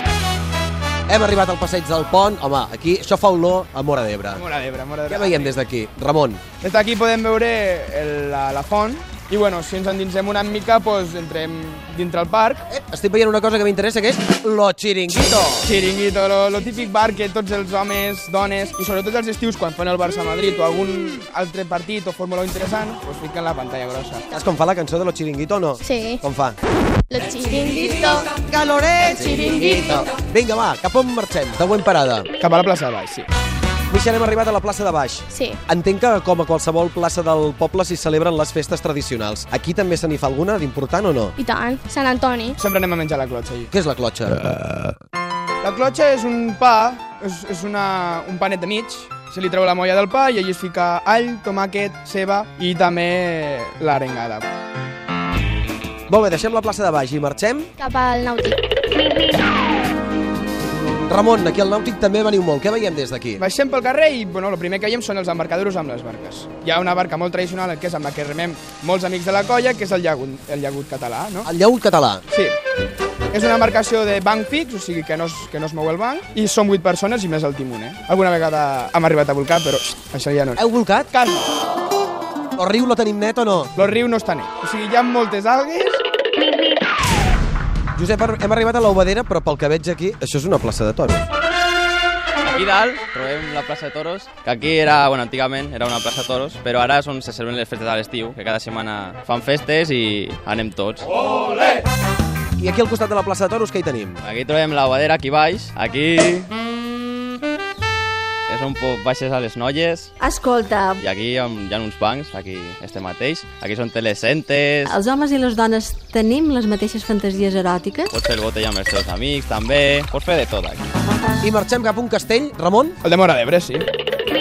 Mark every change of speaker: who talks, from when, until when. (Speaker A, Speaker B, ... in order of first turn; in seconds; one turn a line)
Speaker A: 1.1-4.4
Speaker B: 4.3-5.6
Speaker A: 5.1-6.4
Speaker B: 6.6-12.6
Speaker A: 12.7-15.7
Speaker B: 15.7-24.2
Speaker A: 24.3-26.6
Speaker C: 25.8-26.2
Speaker C: 27.1-28.3
Speaker A: 28.3-32.3
Speaker C: 29.0-30.1
Speaker B: 32.4-33.3
Speaker A: 33.9-41.4
Speaker C: 35.3-35.6
Speaker C: 41.4-42.6
Speaker B: 42.6-43.7
Speaker A: 43.7-44.6
Speaker B: 45.6-54.5
Speaker A: 56.1-57.7
Speaker C: 57.8-58.6
Speaker A: 61.1-63.4
Speaker B: 63.4-71.5
Speaker A: 71.4-72.2
Speaker B: 73.3-80.6
Speaker A: 80.6-81.1
Speaker B: 81.1-81.5
Speaker A: 82.6-83.7
Speaker B: 83.8-86.0
Speaker A: 88.0-91.3
Speaker D: 92.5-101.1
Speaker A: 102.6-104.2
Speaker D: 104.2-106.5
Speaker D: 108.5-110.1
Speaker E: 110.2-111.0
Speaker D: 111.0-114.9
Speaker E: 114.8-118.1
Speaker D: 118.1-120.8
Speaker A: 121.4-123.0
Speaker B: 123.0-123.8